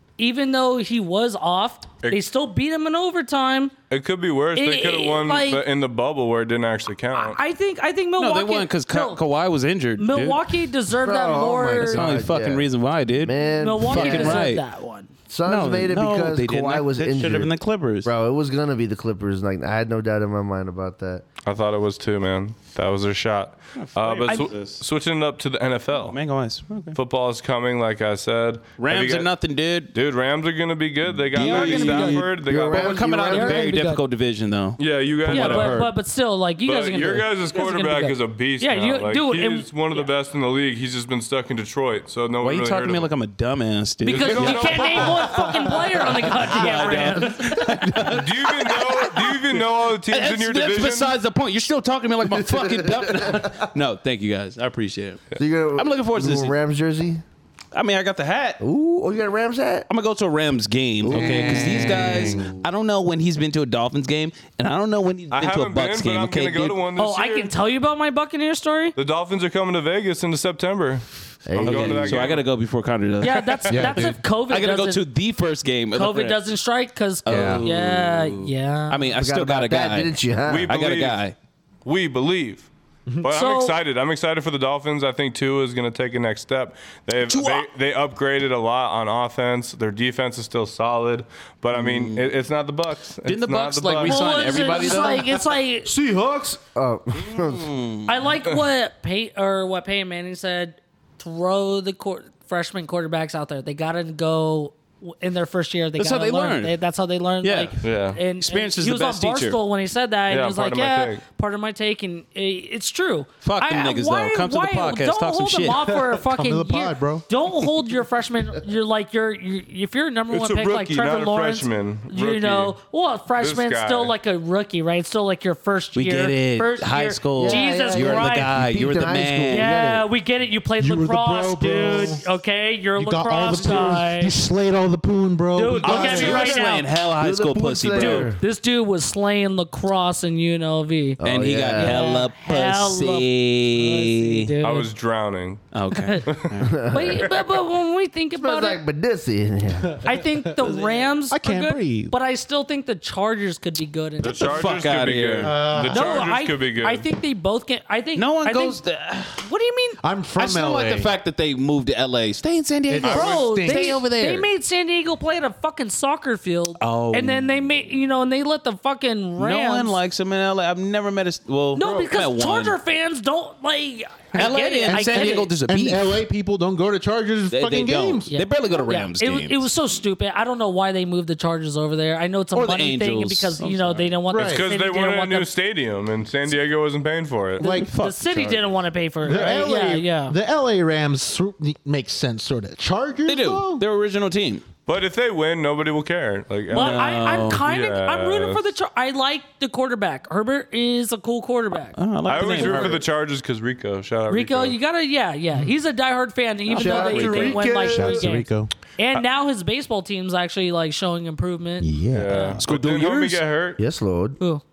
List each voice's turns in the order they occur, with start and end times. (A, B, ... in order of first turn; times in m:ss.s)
0:00.2-0:03.7 A
0:03.9-0:07.4 B
0:04.6-0:05.6 A
0:07.1-0:09.2 A
0:08.2-0:10.5 C
0:10.0-0:12.1 A
0:11.0-0:14.5 D
0:11.8-0:14.6 C
0:13.6-0:15.1 A
0:15.3-0:21.2 D
0:15.4-0:18.1 C
0:21.4-0:26.2 B
0:23.7-0:24.8 C
0:24.3-0:24.5 A
0:26.0-0:27.0 C
0:27.0-0:29.3 B
0:28.8-0:29.9 C
0:29.9-0:33.2 B
0:31.3-0:35.9 C
0:31.4-0:32.3 A
0:32.3-0:33.8 D
0:33.1-0:34.0 A
0:34.8-0:35.9 B
0:35.3-0:40.1 A
0:36.6-0:43.1 B
0:42.4-0:45.3 C
0:44.0-0:47.6 A
0:44.1-0:45.2 B
0:45.3-0:45.7 E
0:46.3-0:55.2 C
0:47.6-0:48.2 D
0:48.0-0:51.2 B
0:52.2-0:53.7 D
0:55.4-0:57.2 D
0:55.8-0:56.5 C
0:57.7-0:58.6 C
0:58.6-0:59.9 D
0:59.9-1:06.8 C
1:01.0-1:02.5 D
1:01.1-1:02.6 E
1:05.3-1:07.6 B
1:07.0-1:09.0 A
1:09.0-1:12.4 B
1:11.4-1:12.3 D
1:11.6-1:16.4 C
1:13.2-1:15.1 A
1:13.7-1:14.2 E
1:15.9-1:19.2 A
1:17.2-1:21.4 C
1:17.3-1:17.6 E
1:19.2-1:20.7 D
1:20.4-1:21.2 B
1:21.8-1:22.7 B
1:23.1-1:23.8 A
1:23.2-1:34.4 B
1:27.3-1:27.7 C
1:31.7-1:32.3 C
1:33.2-1:35.3 C
1:34.0-1:35.9 A
1:34.4-1:37.7 D
1:37.2-1:38.1 C
1:38.1-2:08.5 A
1:46.0-1:46.8 C
1:47.4-1:49.6 C
1:47.8-1:48.2 B
1:50.3-1:51.2 B
1:53.4-1:55.9 C
1:55.9-1:57.2 E
2:00.3-2:02.8 B
2:03.4-2:04.1 B
2:06.0-2:09.9 C
2:07.3-2:10.1 D
2:09.5-2:14.4 A
2:10.8-2:12.2 E
2:13.0-2:16.6 E
2:13.5-2:13.8 C
2:15.6-2:16.9 A
2:15.8-2:18.3 C
2:17.1-2:18.4 D
2:17.9-2:21.2 A
2:21.2-2:22.1 D
2:21.2-2:24.5 C
2:21.7-2:24.9 A
2:24.6-2:25.6 B
2:25.7-2:26.8 C
2:25.9-2:26.3 A
2:26.2-2:26.5 B
2:26.7-2:27.3 D
2:26.9-2:28.8 A
2:28.4-2:30.0 D
2:29.9-2:30.6 E
2:30.0-2:34.7 A
2:30.6-2:31.1 C
2:31.3-2:32.1 E
2:34.2-2:37.0 B
2:34.5-2:35.6 C
2:35.4-2:36.3 E
2:35.9-2:38.8 A
2:38.2-2:39.5 C
2:39.4-2:40.0 A
2:40.0-2:41.1 E
2:40.4-2:44.5 C
2:42.9-2:44.0 E
2:43.0-2:50.0 A
2:46.8-2:47.6 C
2:49.4-2:52.8 C
2:51.7-2:55.5 A
2:54.3-2:56.1 C
2:54.9-2:58.3 E
2:57.5-2:59.7 C
2:58.3-3:05.5 A
3:02.6-3:04.2 C
3:04.3-3:04.7 E
3:04.3-3:07.6 B
3:07.6-3:10.4 A
3:07.6-3:07.9 E
3:07.6-3:08.7 C
3:09.2-3:13.8 E
3:13.3-3:14.6 C
3:14.9-3:17.1 B
3:16.7-3:17.7 C
3:16.7-3:23.0 A
3:17.6-3:18.7 B
3:22.0-3:23.0 C
3:22.2-3:24.8 B
3:24.3-3:32.6 A
3:26.7-3:27.6 C
3:26.8-3:28.7 E
3:26.8-3:28.3 D
3:31.8-3:32.5 E
3:32.1-3:32.4 D
3:32.1-3:33.8 B
3:32.6-3:33.4 C
3:33.8-3:34.4 D